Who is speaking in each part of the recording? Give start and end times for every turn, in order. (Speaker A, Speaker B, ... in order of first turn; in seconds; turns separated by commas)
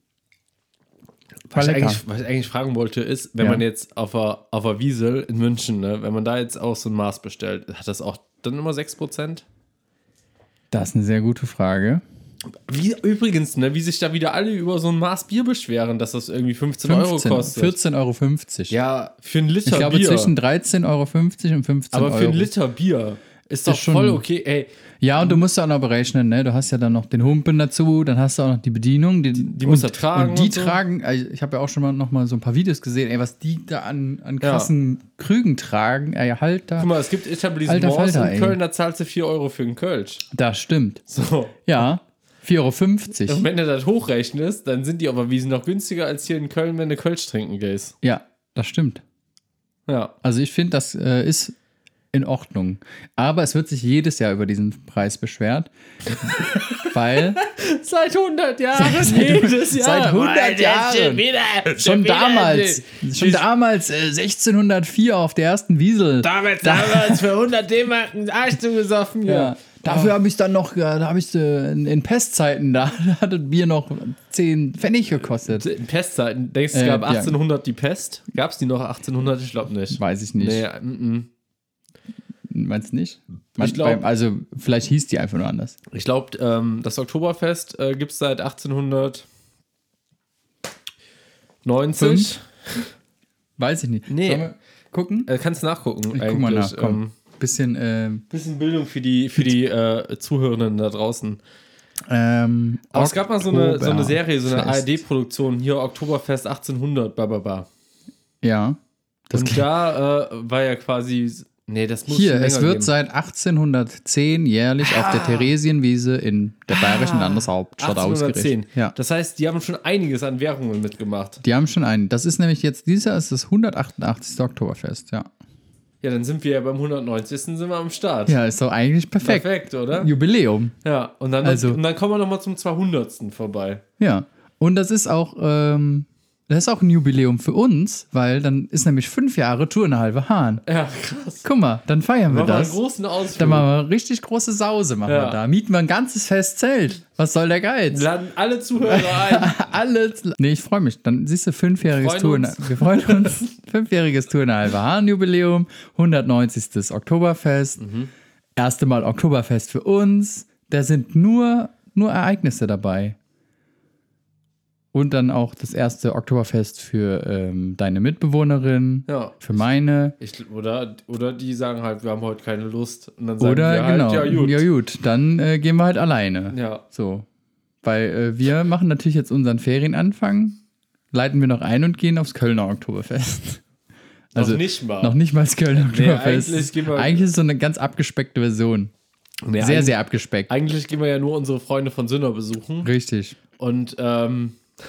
Speaker A: 1.5-9.4, Speaker B: 1.5-2.0, Speaker B: 10.7-12.0, Speaker A: 12.7-17.8, Speaker B: 16.8-18.7, Speaker A: 18.7-20.3, Speaker B: 19.6-22.5, Speaker A: 21.9-24.7, Speaker B: 23.6-24.2, Speaker B: 25.0-36.9, Speaker A: 29.4-30.8, Speaker A: 34.4-34.7, Speaker A: 36.8-40.3, Speaker B: 37.6-38.6, Speaker B: 40.3-41.0, Speaker A: 41.1-41.6, Speaker B: 41.6-43.4, Speaker A: 43.3-47.9, Speaker B: 48.0-49.0, Speaker A: 49.9-50.1, Speaker B: 50.2-51.6, Speaker B: 52.1-55.7, Speaker A: 56.3-63.5, Speaker B: 56.8-57.4, Speaker B: 58.7-67.3, Speaker A: 66.2-70.1, Speaker B: 69.3-75.7, Speaker A: 75.5-81.3, Speaker B: 76.7-77.4, Speaker B: 79.9-80.6, Speaker B: 82.5-85.8, Speaker A: 83.6-84.0, Speaker A: 85.9-89.3, Speaker A: 91.6-92.9, Speaker B: 92.0-92.3, Speaker B: 93.6-95.3, Speaker A: 94.1-94.5, Speaker A: 95.3-97.1, Speaker B: 96.1-98.2, Speaker A: 98.3-101.4, Speaker B: 102.1-105.0, Speaker A: 102.9-107.7, Speaker B: 108.4-109.7, Speaker A: 109.3-112.9, Speaker B: 112.1-118.9, Speaker A: 114.9-115.5, Speaker A: 116.7-121.4, Speaker B: 121.4-125.3, Speaker A: 126.0-128.4, Speaker B: 128.3-130.7, Speaker A: 129.2-130.1, Speaker A: 130.8-133.8, Speaker B: 131.4-131.8, Speaker B: 134.0-140.6, Speaker A: 140.6-141.5, Speaker B: 141.4-142.8, Speaker A: 142.3-143.7, Speaker B: 143.4-148.1, Speaker A: 145.1-145.4, Speaker A: 147.9-149.6, Speaker B: 148.9-157.8, Speaker A: 151.8-153.5, Speaker A: 157.8-158.1, Speaker B: 158.6-163.2, Speaker B: 164.9-170.2, Speaker A: 169.1-169.4, Speaker A: 170.2-174.6, Speaker B: 173.4-177.3, Speaker A: 176.5-176.8, Speaker B: 177.8-180.6, Speaker B: 181.1-183.6, Speaker A: 184.3-185.1, Speaker B: 184.3-188.9, Speaker A: 185.8-187.3, Speaker A: 189.4-190.0, Speaker B: 189.6-190.5, Speaker A: 190.5-192.9, Speaker B: 192.8-193.4, Speaker A: 193.6-194.6